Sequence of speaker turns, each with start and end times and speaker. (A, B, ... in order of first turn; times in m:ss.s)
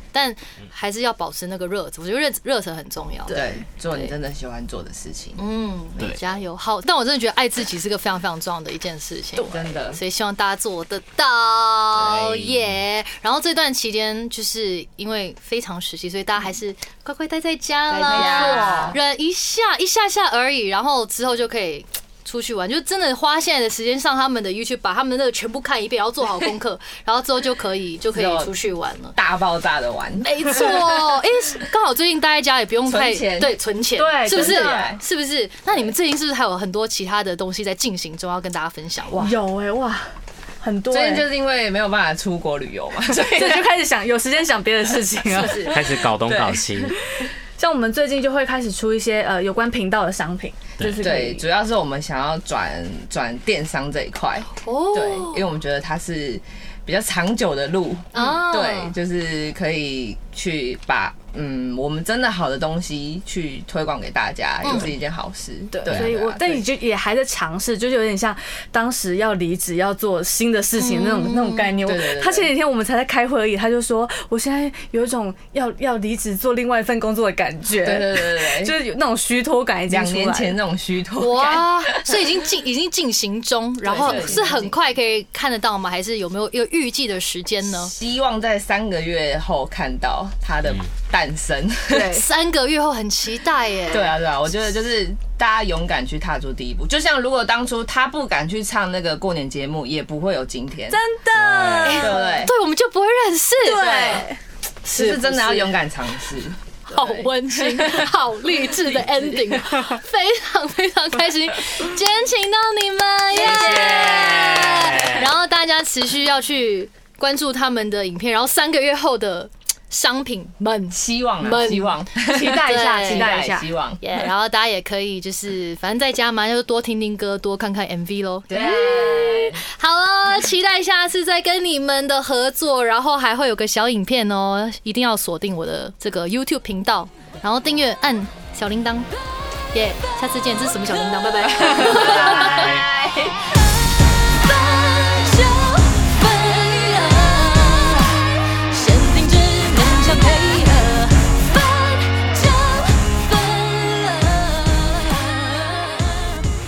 0:00.1-0:04.1 A
0:03.3-0:05.4 B
0:05.4-0:29.2 A
0:09.4-0:10.0 B
0:12.0-0:12.5 B
0:18.0-0:19.0 C
0:18.0-0:19.0 B
0:28.1-0:28.5 B
0:29.1-0:30.7 B
0:30.2-0:39.3 A
0:32.8-0:33.6 B
0:33.9-0:35.0 C
0:34.2-0:35.0 B
0:39.1-0:41.3 C
0:40.9-0:43.7 B
0:43.0-0:46.0 C
0:45.3-0:46.6 B
0:45.6-0:47.0 D
0:46.8-0:51.4 C
0:51.0-1:06.6 B
0:54.6-0:55.4 A
0:58.1-0:58.9 A
1:04.6-1:04.9 A
1:05.7-1:20.6 C
1:10.8-1:11.7 A
1:11.8-1:12.5 B
1:17.8-1:18.8 B
1:19.9-1:22.3 B
1:21.2-1:27.9 A
1:23.8-1:24.8 B
1:23.9-1:24.5 C
1:27.7-1:32.2 B
1:31.9-1:34.2 A
1:33.9-1:41.0 B
1:40.9-1:42.4 C
1:41.4-1:41.8 D
1:41.8-1:44.3 A
1:41.9-1:42.5 B
1:43.6-1:44.4 C
1:44.8-1:45.7 A
1:44.9-1:48.1 B
1:46.9-2:03.4 A
1:53.3-1:55.2 B
1:53.5-1:54.1 C
2:00.9-2:04.0 B
2:02.2-2:03.7 C
2:04.0-2:19.1 A
2:08.5-2:09.6 B
2:19.7-2:22.8 A
2:21.6-2:23.4 B
2:22.5-2:22.8 D
2:24.2-2:36.4 A